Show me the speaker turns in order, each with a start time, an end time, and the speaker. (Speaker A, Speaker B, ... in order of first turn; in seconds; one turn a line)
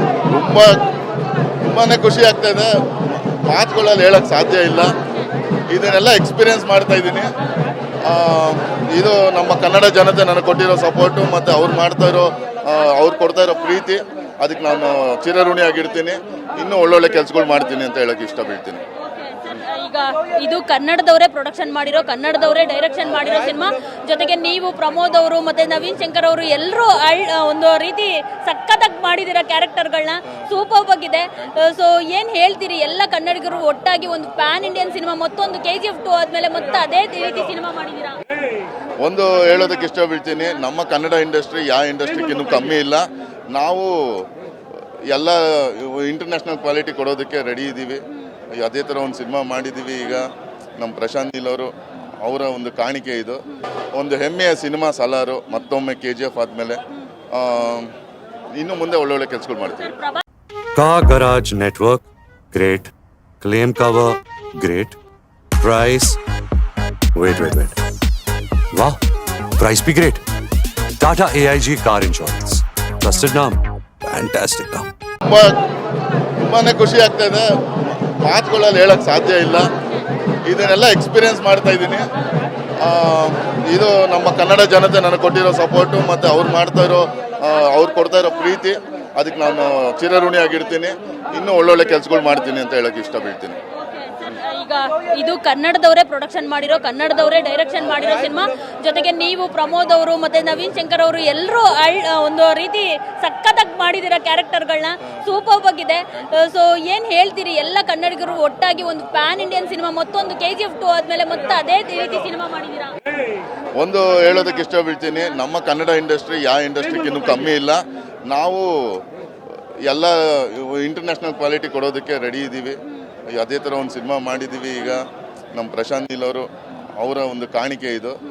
Speaker A: 0.3-0.8
Speaker A: 1.6-4.9
Speaker A: 5.7-7.3
Speaker A: 8.0-18.8
Speaker B: 19.1-38.2
Speaker A: 39.0-44.3
Speaker A: 45.1-48.0
Speaker A: 48.6-50.3
Speaker A: 50.8-51.7
Speaker A: 52.2-53.4
Speaker A: 54.0-56.8
Speaker A: 57.3-57.9
Speaker A: 58.5-59.9
Speaker C: 60.8-65.0
Speaker C: 65.6-66.2
Speaker C: 67.2-67.8
Speaker C: 69.6-70.2
Speaker C: 71.0-74.9
Speaker A: 75.2-75.5
Speaker A: 76.4-79.7
Speaker A: 80.5-82.1
Speaker A: 82.8-93.6
Speaker B: 93.9-113.0
Speaker A: 113.8-119.0
Speaker A: 119.9-122.8
Speaker A: 123.3-125.0
Speaker A: 125.5-126.5
Speaker A: 127.0-128.2